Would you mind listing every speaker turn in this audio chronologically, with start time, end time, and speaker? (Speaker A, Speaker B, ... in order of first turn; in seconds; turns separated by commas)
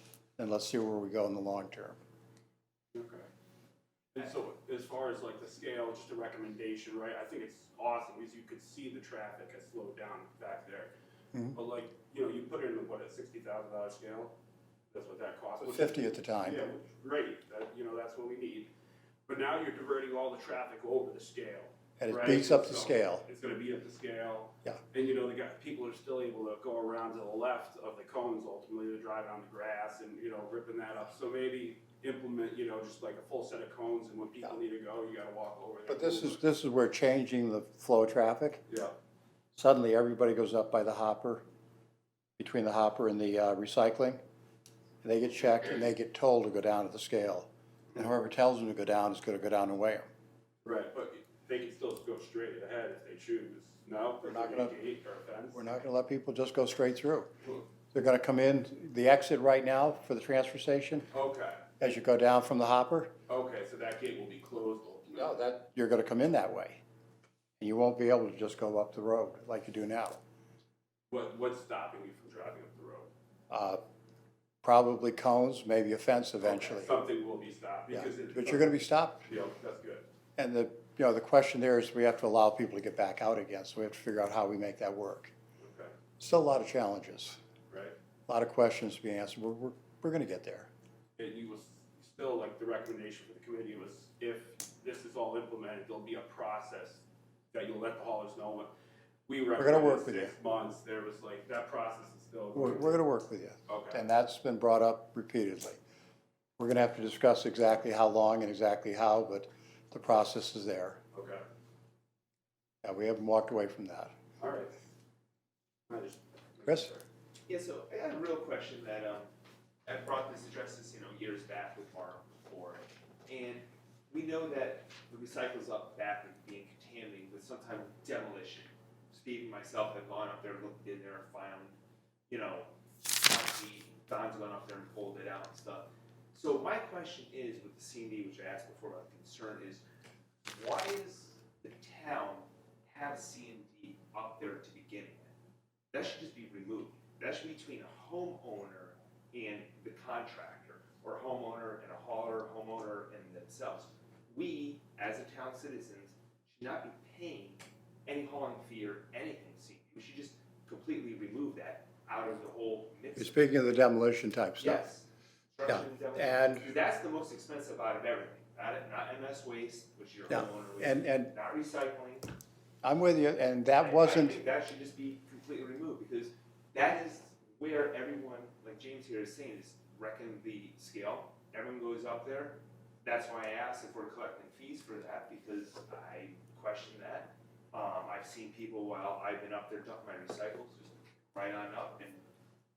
Speaker A: 0.4-2.0, Speaker B: 2.9-3.2, Speaker B: 4.1-10.9, Speaker B: 11.5-14.3, Speaker B: 14.9-18.7, Speaker A: 15.6-16.7, Speaker B: 19.3-36.4, Speaker A: 22.0-23.2, Speaker A: 35.9-38.6, Speaker B: 38.7-38.9, Speaker A: 39.5-41.4, Speaker A: 42.4-44.2, Speaker A: 45.0-50.1, Speaker B: 50.6-55.6, Speaker A: 54.2-54.7, Speaker A: 55.5-57.3, Speaker A: 57.9-61.1, Speaker B: 61.1-61.8, Speaker A: 61.8-63.1, Speaker B: 63.3-65.4, Speaker A: 65.2-66.8, Speaker A: 67.6-70.2, Speaker B: 71.1-73.1, Speaker A: 73.5-73.8, Speaker A: 74.6-77.0, Speaker B: 76.4-80.0, Speaker A: 77.9-79.2, Speaker A: 80.4-85.3, Speaker B: 85.6-85.9, Speaker A: 86.2-87.4, Speaker B: 87.7-87.9, Speaker A: 88.3-90.7, Speaker B: 91.2-98.7, Speaker B: 99.3-103.0, Speaker A: 99.6-100.3, Speaker A: 102.5-105.8, Speaker B: 103.7-104.0, Speaker A: 106.6-111.0, Speaker B: 111.1-111.4, Speaker A: 112.8-114.1, Speaker B: 114.4-114.7, Speaker B: 115.9-117.0, Speaker C: 117.5-119.3, Speaker C: 119.8-131.8, Speaker C: 132.3-139.8, Speaker C: 140.5-145.3, Speaker C: 145.9-163.5, Speaker A: 163.2-164.8, Speaker C: 164.6-172.3, Speaker A: 165.7-166.7, Speaker A: 170.3-171.3, Speaker A: 172.8-174.4, Speaker C: 173.8-192.2